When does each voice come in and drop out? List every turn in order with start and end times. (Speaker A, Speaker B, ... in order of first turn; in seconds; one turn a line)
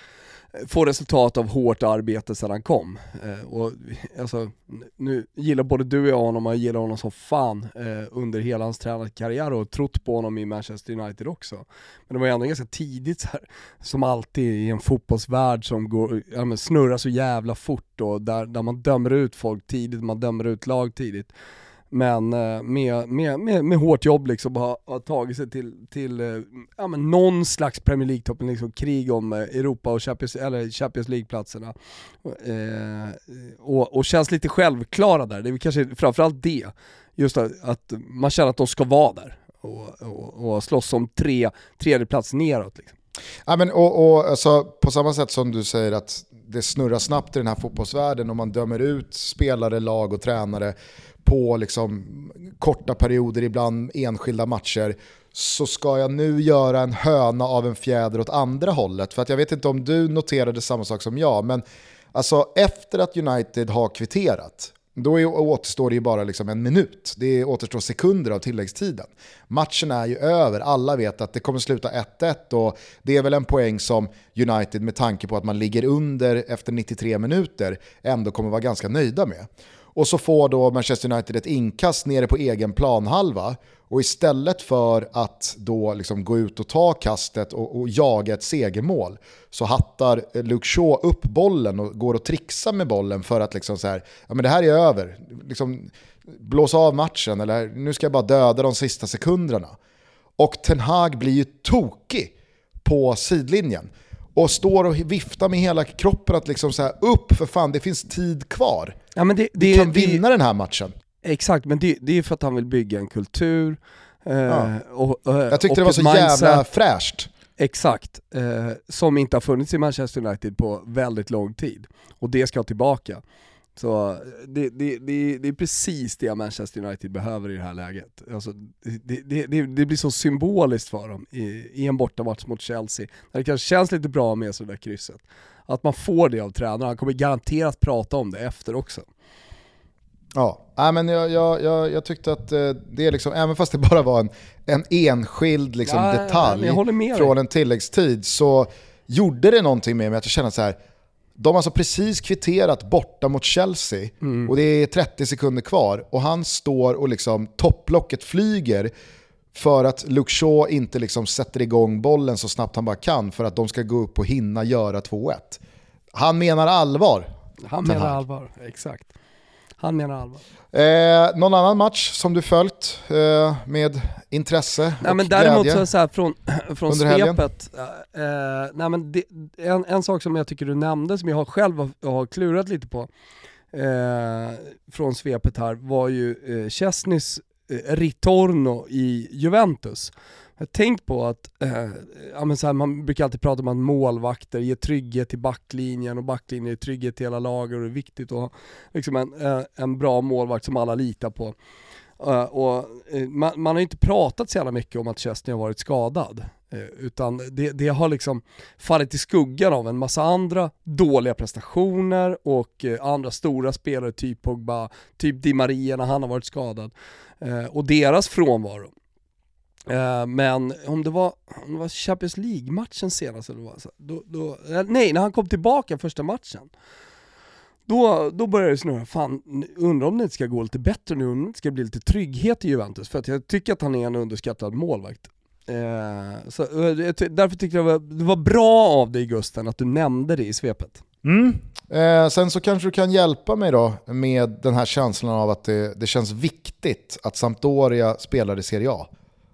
Speaker A: 0.6-21.3
Speaker A: 21.9-42.9
Speaker B: 43.5-61.6
Speaker B: 62.1-99.7
Speaker B: 100.4-102.3
Speaker B: 102.8-109.0
Speaker A: 109.2-110.2
Speaker B: 109.6-110.9
Speaker A: 111.2-116.7
Speaker B: 115.5-117.3
Speaker A: 117.6-123.2
Speaker A: 123.8-139.1
Speaker B: 140.3-150.8
Speaker A: 145.8-147.3
Speaker B: 151.4-158.9
Speaker A: 154.2-154.5
Speaker B: 159.5-165.6
Speaker B: 166.1-167.3
Speaker A: 167.6-169.1
Speaker B: 167.8-168.2
Speaker A: 169.8-170.4
Speaker B: 170.7-175.8
Speaker A: 175.0-183.1
Speaker B: 176.9-177.4
Speaker A: 183.7-201.5
Speaker A: 202.2-218.9
Speaker A: 219.9-226.7
Speaker A: 227.9-241.0
Speaker B: 241.2-249.1